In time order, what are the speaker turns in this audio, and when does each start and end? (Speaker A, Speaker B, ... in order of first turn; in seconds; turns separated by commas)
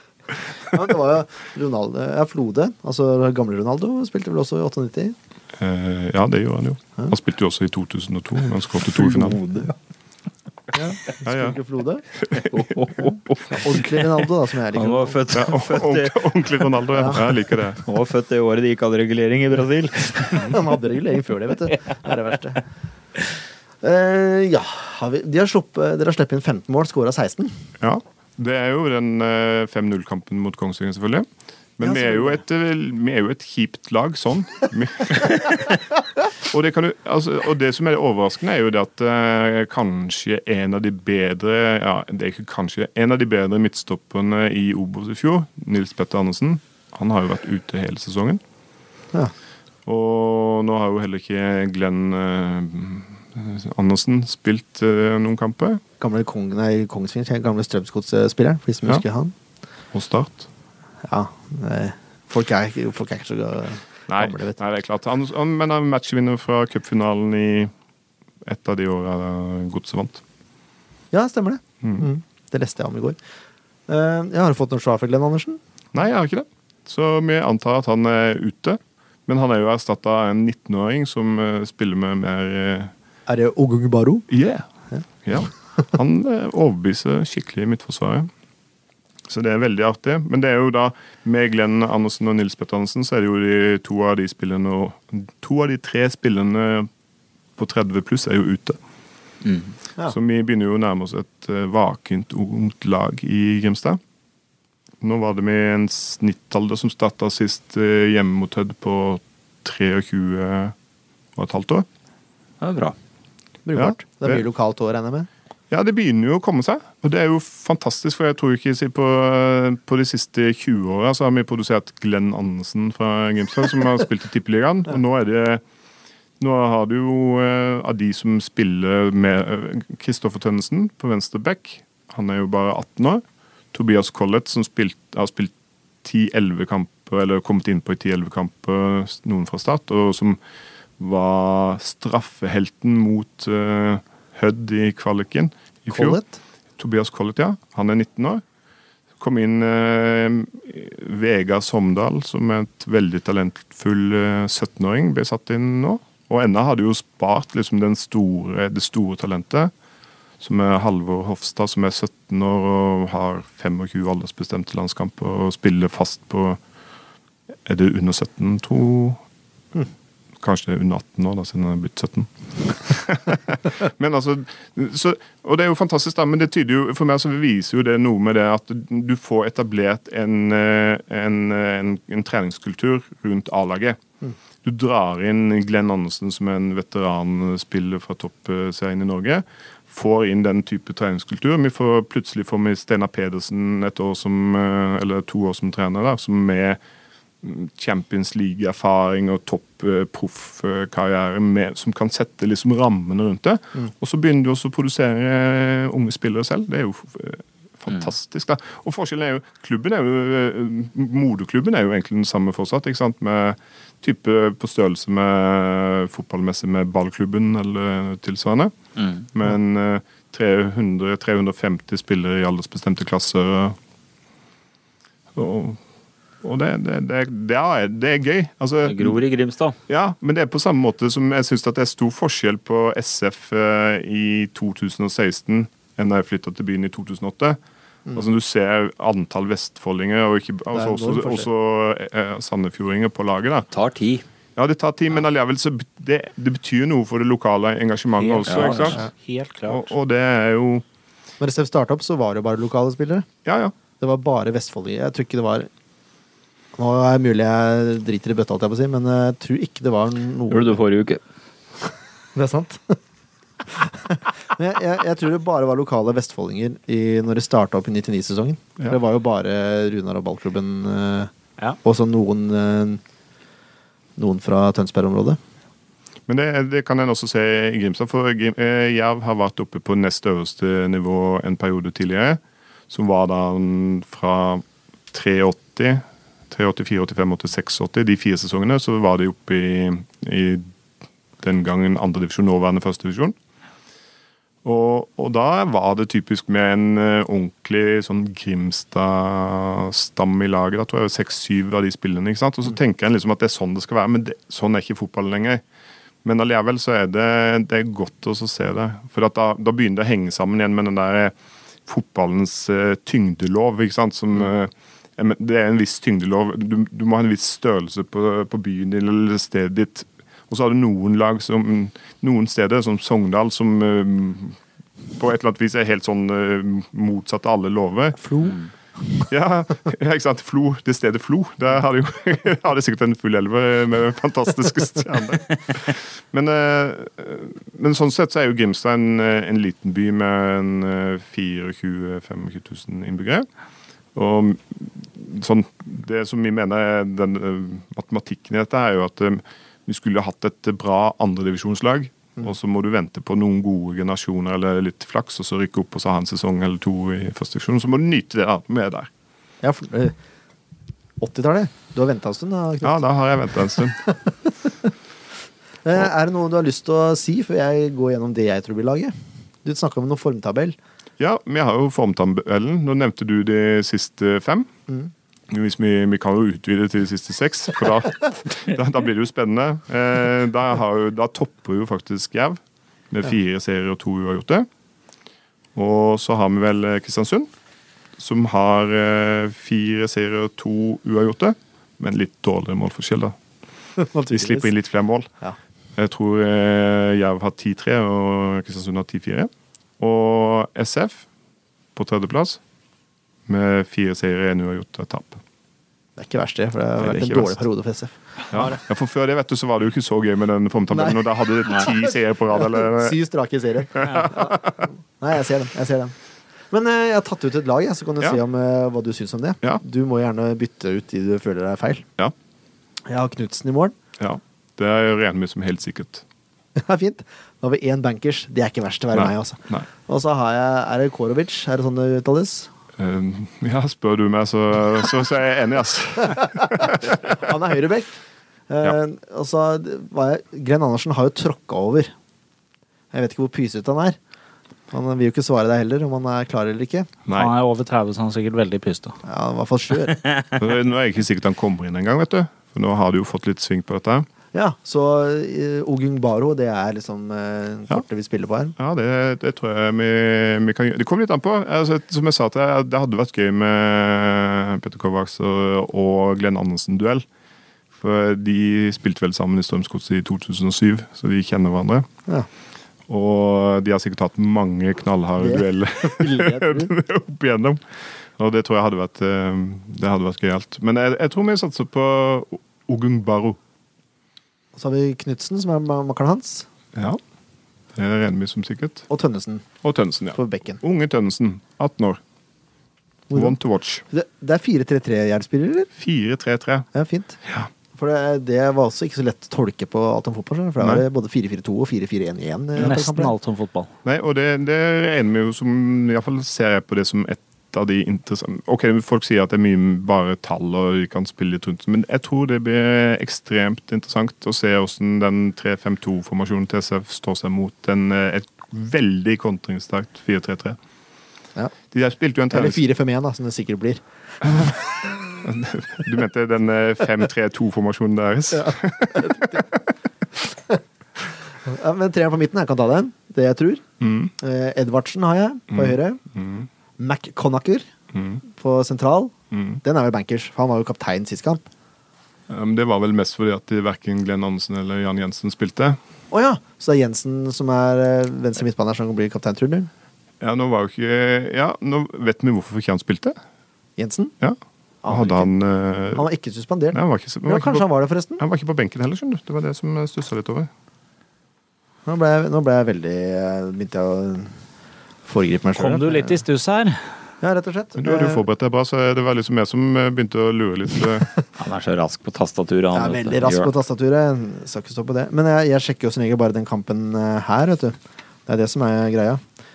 Speaker A: 0.7-5.2, Speaker B: 5.6-9.4, Speaker C: 8.8-9.7, Speaker A: 10.7-12.0, Speaker B: 11.2-11.6, Speaker B: 12.2-12.9, Speaker C: 12.3-20.6, Speaker A: 13.5-15.2, Speaker B: 15.3-17.8, Speaker A: 16.9-17.2, Speaker A: 20.3-22.6, Speaker A: 23.8-27.5, Speaker B: 27.8-35.9, Speaker A: 31.8-32.4, Speaker B: 36.4-48.4, Speaker B: 49.8-55.8, Speaker A: 56.0-59.3, Speaker B: 59.9-60.5, Speaker A: 61.0-64.6, Speaker B: 64.1-67.7, Speaker B: 68.4-70.2, Speaker A: 71.1-73.2, Speaker A: 73.9-75.6, Speaker B: 75.9-82.9, Speaker A: 83.3-84.3, Speaker B: 84.3-84.7, Speaker B: 85.2-88.3, Speaker B: 89.3-96.9, Speaker B: 97.6-98.8, Speaker C: 99.4-99.7, Speaker B: 100.0-104.0, Speaker B: 105.0-110.7, Speaker B: 111.3-111.8, Speaker C: 112.6-113.0, Speaker A: 113.7-115.3, Speaker B: 113.7-114.4, Speaker B: 115.7-125.6, Speaker B: 126.4-140.4, Speaker B: 141.0-146.2, Speaker A: 145.9-146.4, Speaker B: 146.8-148.4, Speaker B: 149.2-159.7, Speaker B: 160.4-166.6, Speaker B: 167.6-169.2, Speaker B: 170.4-184.0, Speaker B: 184.6-196.8, Speaker B: 197.4-218.7, Speaker C: 218.9-219.3, Speaker B: 219.3-223.8, Speaker B: 225.3-225.8, Speaker B: 226.4-229.2, Speaker C: 228.8-229.8, Speaker B: 229.9-237.6, Speaker B: 238.1-243.7, Speaker A: 240.7-241.5, Speaker C: 243.7-244.2, Speaker B: 244.6-249.0, Speaker D: 248.2-249.9, Speaker C: 248.4-249.0, Speaker B: 249.7-250.8, Speaker A: 251.4-253.3, Speaker B: 253.4-253.7, Speaker A: 254.0-255.7, Speaker A: 256.7-260.8, Speaker C: 260.5-261.2, Speaker A: 262.3-263.0, Speaker A: 263.6-271.3, Speaker A: 271.8-273.0, Speaker A: 274.2-275.4, Speaker B: 276.3-290.7, Speaker B: 291.4-293.3, Speaker B: 294.6-305.6, Speaker B: 306.2-311.3, Speaker B: 311.9-324.6, Speaker B: 325.1-328.2, Speaker A: 328.2-329.3, Speaker C: 328.4-328.7, Speaker B: 329.3-343.5, Speaker B: 344.1-359.1, Speaker A: 359.6-360.1, Speaker A: 361.2-363.0, Speaker B: 362.8-364.0, Speaker A: 364.0-364.9, Speaker A: 365.8-369.1, Speaker A: 369.6-370.8, Speaker B: 371.2-374.7, Speaker B: 375.5-384.7, Speaker B: 385.7-387.5, Speaker B: 388.2-393.4, Speaker A: 394.0-394.7, Speaker B: 394.3-395.3, Speaker B: 396.0-401.2, Speaker B: 401.9-402.6, Speaker B: 403.5-405.4, Speaker A: 406.2-408.8, Speaker B: 407.0-407.6, Speaker B: 408.5-413.2, Speaker A: 410.9-416.1, Speaker B: 413.9-414.9, Speaker A: 416.7-422.1, Speaker A: 423.1-423.9, Speaker B: 424.2-426.2, Speaker A: 426.7-432.7, Speaker B: 429.1-429.9, Speaker B: 433.0-437.4, Speaker A: 436.4-438.1, Speaker A: 438.7-442.1, Speaker A: 443.1-444.2, Speaker A: 444.9-447.1, Speaker B: 447.2-447.5, Speaker D: 447.3-449.2, Speaker A: 449.2-450.2, Speaker B: 450.6-454.3, Speaker A: 454.5-458.7, Speaker B: 458.8-467.2, Speaker B: 468.0-472.1, Speaker B: 473.1-477.8, Speaker A: 475.4-476.9, Speaker B: 478.4-483.6, Speaker A: 484.7-486.7, Speaker B: 486.9-487.2, Speaker B: 487.9-489.1, Speaker A: 489.1-489.6, Speaker B: 489.8-492.2, Speaker A: 490.3-490.8, Speaker A: 493.3-493.6, Speaker B: 493.3-494.0, Speaker A: 494.1-495.9, Speaker B: 496.0-496.9, Speaker A: 496.9-497.4, Speaker A: 497.9-503.3, Speaker D: 502.8-503.9, Speaker B: 504.0-520.8, Speaker B: 521.9-522.8, Speaker A: 522.5-524.0, Speaker B: 524.4-524.8, Speaker B: 525.3-529.8, Speaker A: 528.5-529.6, Speaker A: 530.5-530.8, Speaker A: 531.6-533.8, Speaker B: 534.0-534.3, Speaker A: 534.4-536.2, Speaker B: 535.7-536.7, Speaker A: 537.0-537.9, Speaker B: 538.1-538.4, Speaker A: 538.4-541.7, Speaker B: 539.5-539.8, Speaker B: 542.5-546.0, Speaker A: 546.3-549.9, Speaker B: 550.4-553.4, Speaker A: 554.0-554.3, Speaker B: 554.4-556.3, Speaker A: 555.0-555.5, Speaker A: 556.1-558.4, Speaker B: 556.9-557.9, Speaker B: 558.4-560.7, Speaker A: 562.0-564.5, Speaker A: 565.2-566.4, Speaker D: 565.8-567.0, Speaker A: 567.4-568.4, Speaker B: 568.0-571.3, Speaker C: 571.6-573.7, Speaker A: 572.9-579.4